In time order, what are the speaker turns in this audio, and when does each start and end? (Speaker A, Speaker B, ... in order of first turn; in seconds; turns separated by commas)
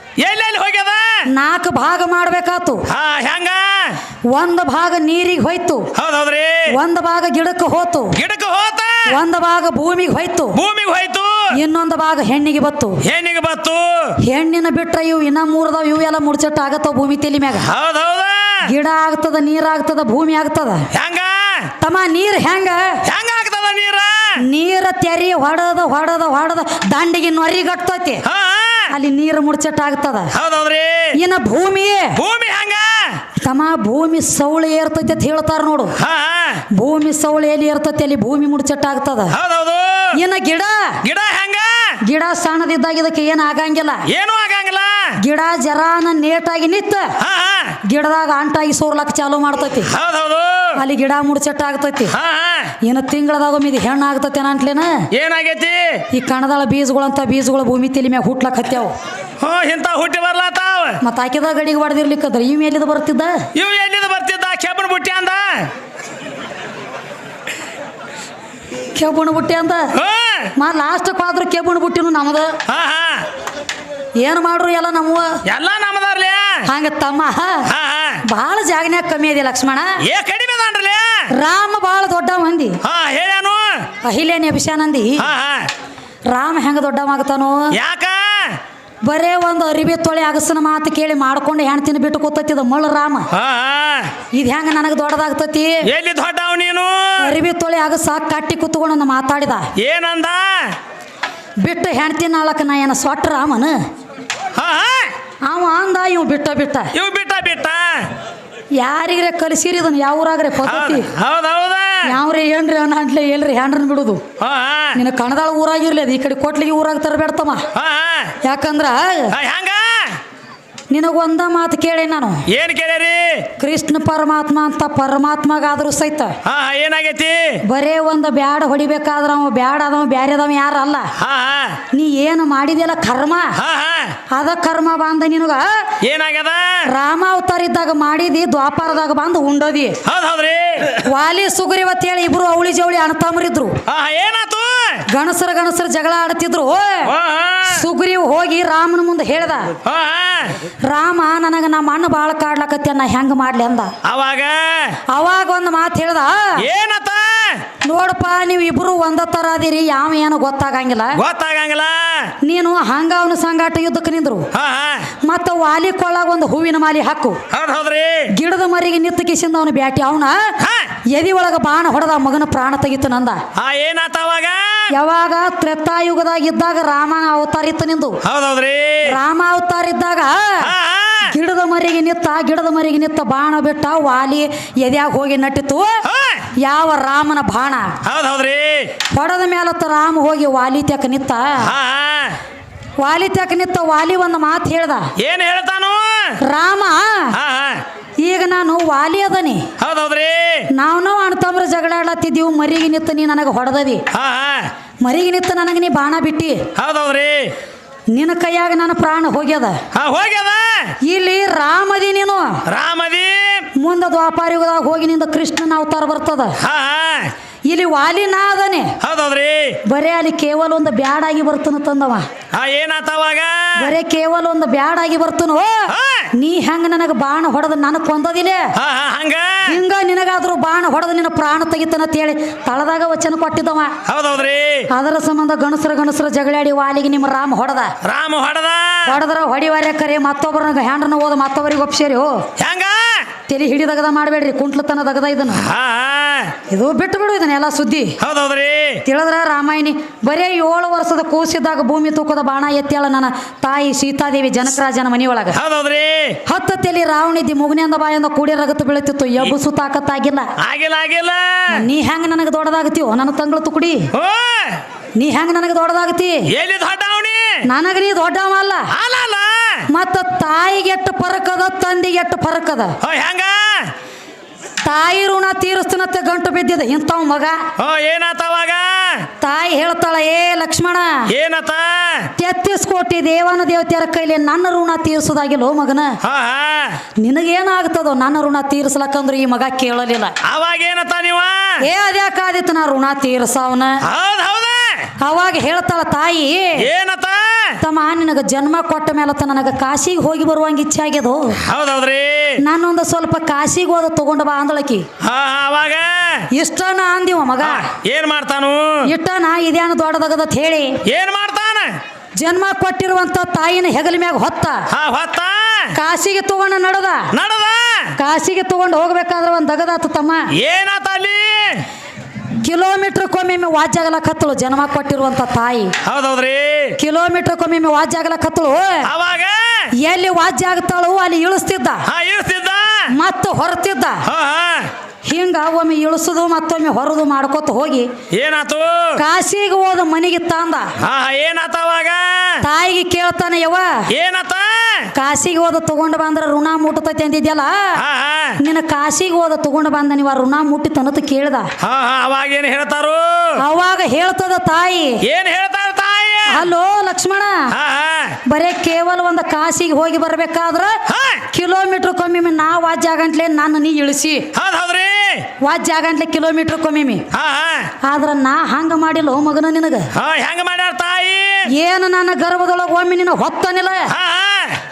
Speaker A: 0.2-1.2, Speaker B: 1.3-2.8, Speaker A: 2.9-4.0, Speaker B: 4.3-5.9, Speaker A: 5.9-6.7, Speaker B: 6.7-8.2, Speaker A: 8.2-9.1, Speaker B: 9.1-10.6, Speaker A: 10.5-11.5, Speaker B: 11.5-13.0, Speaker A: 13.0-14.2, Speaker B: 14.2-17.7, Speaker A: 17.6-18.7, Speaker B: 18.7-20.9, Speaker A: 20.9-21.7, Speaker B: 21.8-23.0, Speaker A: 23.1-24.4, Speaker B: 24.4-28.2, Speaker A: 28.2-28.9, Speaker B: 28.9-30.3, Speaker A: 30.3-31.1, Speaker B: 31.1-32.2, Speaker A: 32.1-33.2, Speaker B: 33.4-35.9, Speaker A: 36.0-36.6, Speaker B: 36.7-39.4, Speaker A: 39.3-40.1, Speaker B: 40.1-41.0, Speaker A: 41.0-42.0, Speaker B: 42.0-44.0, Speaker A: 44.1-45.2, Speaker B: 45.2-47.1, Speaker A: 47.2-47.8, Speaker B: 47.8-49.9, Speaker A: 49.8-50.8, Speaker B: 50.8-52.1, Speaker A: 52.1-52.8, Speaker B: 52.8-55.1, Speaker A: 55.1-56.0, Speaker B: 56.1-58.9, Speaker A: 59.4-61.0, Speaker B: 61.0-63.5, Speaker A: 63.5-65.7, Speaker B: 68.9-69.9, Speaker A: 69.9-70.5, Speaker B: 70.5-72.6, Speaker A: 72.7-73.2, Speaker B: 74.2-75.4, Speaker A: 75.5-76.7, Speaker B: 76.7-77.7, Speaker A: 77.7-78.2, Speaker B: 78.2-80.0, Speaker A: 80.0-81.3, Speaker B: 81.3-82.8, Speaker A: 82.8-83.9, Speaker B: 84.0-85.3, Speaker A: 85.2-85.7, Speaker B: 86.3-87.7, Speaker A: 87.7-88.6, Speaker B: 89.0-93.3, Speaker A: 93.3-94.1, Speaker B: 94.3-95.8, Speaker A: 95.8-97.4, Speaker B: 97.2-99.7, Speaker A: 99.8-100.8, Speaker B: 101.6-103.8, Speaker A: 104.5-105.1, Speaker B: 105.5-106.9, Speaker A: 106.9-108.1, Speaker B: 108.8-111.1, Speaker A: 110.6-112.1, Speaker B: 112.0-114.2, Speaker A: 114.4-115.0, Speaker B: 114.9-117.7, Speaker A: 117.7-118.3, Speaker B: 118.4-119.3, Speaker A: 119.3-120.2, Speaker B: 120.9-122.4, Speaker A: 122.5-123.5, Speaker B: 123.6-126.4, Speaker A: 126.4-127.6, Speaker B: 127.7-131.1, Speaker A: 131.2-131.8, Speaker B: 131.9-133.6, Speaker A: 133.6-134.2, Speaker B: 134.3-135.9, Speaker A: 136.0-136.9, Speaker B: 136.8-140.0, Speaker A: 140.0-141.0, Speaker B: 140.9-143.8, Speaker A: 143.9-145.0, Speaker B: 145.1-147.1, Speaker A: 147.0-147.8, Speaker B: 147.7-149.7, Speaker A: 149.8-150.6, Speaker B: 150.8-153.9, Speaker A: 154.0-155.0, Speaker B: 155.1-156.7, Speaker A: 156.6-157.6, Speaker B: 157.8-161.2, Speaker A: 161.1-162.3, Speaker B: 162.4-164.5, Speaker A: 164.5-165.1, Speaker B: 165.2-167.4, Speaker A: 167.5-168.3, Speaker B: 168.3-170.6, Speaker A: 170.6-170.9, Speaker B: 171.1-173.4, Speaker A: 173.6-174.9, Speaker B: 174.9-178.2, Speaker A: 178.2-179.2, Speaker B: 179.0-180.7, Speaker A: 180.6-181.3, Speaker B: 181.3-186.0, Speaker A: 186.0-186.5, Speaker B: 186.6-188.0, Speaker A: 188.0-188.9, Speaker B: 189.1-191.7, Speaker A: 191.6-192.4, Speaker B: 193.0-195.1, Speaker A: 195.2-196.4, Speaker B: 196.4-197.4, Speaker A: 197.3-197.8, Speaker B: 198.2-199.7, Speaker A: 199.8-200.7, Speaker B: 200.7-204.0, Speaker A: 204.1-204.7, Speaker B: 205.0-206.7, Speaker A: 206.8-207.5, Speaker B: 208.1-209.8, Speaker A: 209.9-210.9, Speaker B: 211.0-212.6, Speaker A: 212.7-213.7, Speaker B: 213.8-216.6, Speaker A: 216.6-217.3, Speaker B: 217.7-219.0, Speaker A: 219.0-219.8, Speaker B: 219.8-222.3, Speaker A: 222.5-223.9, Speaker B: 223.8-228.7, Speaker A: 225.9-226.3, Speaker A: 228.7-229.8, Speaker B: 229.7-234.0, Speaker A: 234.1-234.9, Speaker B: 234.9-237.9, Speaker A: 238.0-239.2, Speaker B: 239.1-242.4, Speaker A: 242.6-243.3, Speaker B: 243.5-245.7, Speaker A: 245.5-246.5, Speaker B: 246.7-248.2, Speaker A: 248.2-249.0, Speaker B: 249.0-255.6, Speaker A: 255.5-256.4, Speaker B: 256.5-260.5, Speaker A: 260.6-261.9, Speaker B: 261.7-264.1, Speaker A: 264.1-264.8, Speaker B: 265.1-266.5, Speaker A: 266.5-267.6, Speaker B: 267.6-268.9, Speaker A: 268.9-269.9, Speaker B: 269.9-273.0, Speaker A: 273.0-273.9, Speaker B: 274.8-277.7, Speaker A: 277.8-279.3, Speaker B: 279.4-281.3, Speaker A: 281.3-282.3, Speaker B: 282.4-286.2, Speaker A: 286.2-287.0, Speaker B: 287.2-290.3, Speaker A: 290.4-291.8, Speaker B: 291.8-294.0, Speaker A: 294.0-295.1, Speaker B: 295.2-296.9, Speaker A: 296.8-297.8, Speaker B: 297.8-301.6, Speaker A: 301.6-302.6, Speaker B: 302.6-305.1, Speaker A: 305.2-306.5, Speaker B: 306.5-307.9, Speaker A: 307.6-309.0, Speaker B: 309.1-311.0, Speaker A: 311.1-312.0, Speaker B: 312.4-314.8, Speaker A: 314.9-315.9, Speaker B: 315.9-317.3, Speaker A: 317.3-318.1, Speaker B: 318.2-320.5, Speaker A: 320.5-321.9, Speaker B: 322.6-325.9, Speaker A: 326.0-327.0, Speaker B: 327.0-329.1, Speaker A: 329.0-329.9, Speaker B: 330.0-332.0, Speaker A: 332.1-333.1, Speaker B: 333.1-334.2, Speaker A: 334.2-334.9, Speaker B: 335.2-338.1, Speaker A: 338.3-339.2, Speaker B: 339.2-340.9, Speaker A: 341.0-342.6, Speaker B: 342.6-344.0, Speaker A: 344.1-345.1, Speaker B: 345.1-348.0, Speaker A: 348.0-348.6, Speaker B: 348.6-351.7, Speaker A: 351.8-353.6, Speaker B: 353.6-355.2, Speaker A: 355.2-356.7, Speaker B: 356.5-357.7, Speaker A: 357.7-358.4, Speaker B: 358.5-364.5, Speaker A: 361.1-361.4, Speaker A: 364.5-365.5, Speaker B: 365.6-367.3, Speaker A: 367.3-367.9, Speaker B: 368.0-370.1, Speaker A: 370.1-371.7, Speaker B: 371.7-374.1, Speaker A: 374.1-374.8